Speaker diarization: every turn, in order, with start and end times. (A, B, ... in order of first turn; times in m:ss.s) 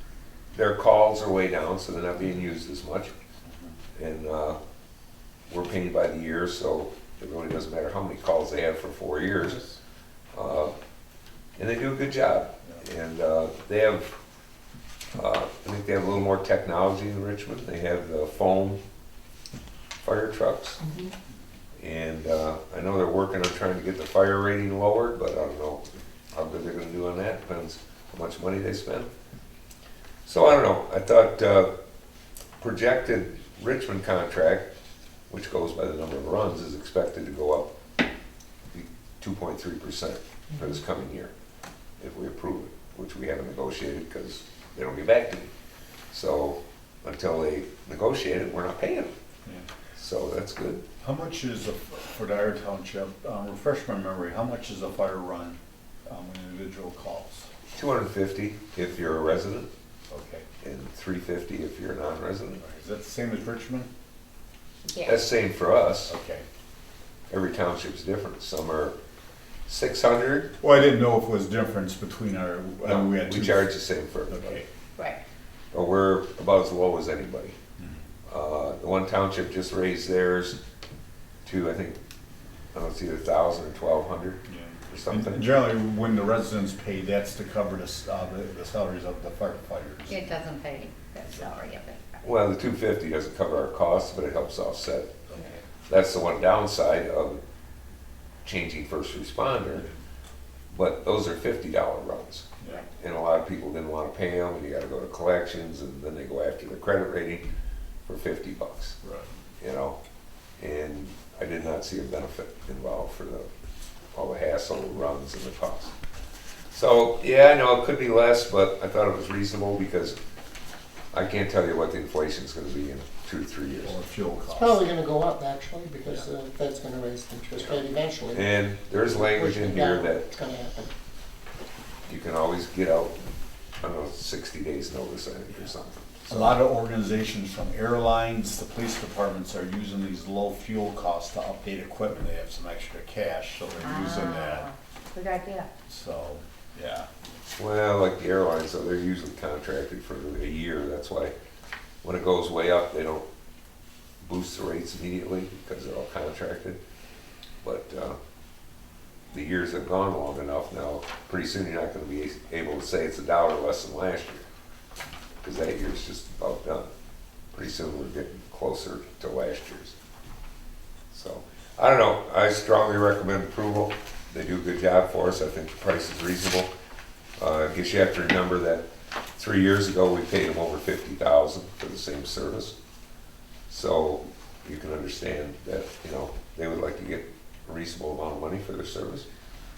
0:00.5-0:03.1 A
0:03.5-0:03.8 B
0:04.0-0:04.6 A
0:05.5-0:09.6 A
0:09.4-0:09.7 C
0:10.3-0:10.7 A
0:11.6-0:14.1 A
0:15.2-0:18.8 A
0:20.0-0:20.8 A
0:20.8-0:21.1 C
0:21.8-0:29.1 A
0:30.3-0:31.7 A
0:32.6-0:34.7 A
0:35.3-0:37.7 A
0:38.7-0:41.3 A
0:42.0-0:45.5 A
0:46.1-0:49.1 A
0:50.0-0:50.8 A
0:51.0-0:57.5 B
0:57.7-0:59.7 A
1:00.1-1:00.5 B
1:00.6-1:02.6 A
1:02.6-1:03.9 B
1:04.8-1:05.2 D
1:05.0-1:06.1 A
1:06.1-1:06.5 B
1:07.3-1:09.0 A
1:09.7-1:10.5 A
1:10.6-1:13.7 B
1:12.8-1:14.6 A
1:14.3-1:14.7 B
1:15.0-1:15.2 D
1:15.7-1:17.6 A
1:17.8-1:18.0 B
1:18.3-1:20.6 A
1:21.4-1:22.0 A
1:22.7-1:25.5 A
1:24.5-1:30.3 B
1:30.1-1:32.2 D
1:32.2-1:35.2 A
1:35.3-1:35.6 B
1:35.9-1:37.4 A
1:38.4-1:39.9 A
1:40.7-1:47.4 A
1:42.6-1:42.8 B
1:48.1-1:49.0 A
1:49.0-1:49.3 B
1:49.6-1:50.0 A
1:50.6-1:53.5 A
1:54.2-1:55.9 A
1:56.7-2:00.2 A
2:01.1-2:04.0 A
2:03.8-2:04.8 B
2:04.6-2:08.4 C
2:08.3-2:10.3 A
2:09.1-2:10.9 C
2:12.1-2:13.2 A
2:13.8-2:16.6 A
2:16.3-2:24.7 B
2:23.8-2:25.7 D
2:25.9-2:27.1 B
2:27.6-2:31.3 A
2:32.0-2:33.2 A
2:34.2-2:36.8 A
2:37.6-2:38.2 A
2:39.3-2:44.5 A
2:45.4-2:46.9 A
2:47.5-2:49.9 A
2:51.1-2:56.7 A
2:57.4-2:58.8 A
2:59.4-3:02.8 A
3:03.7-3:09.3 A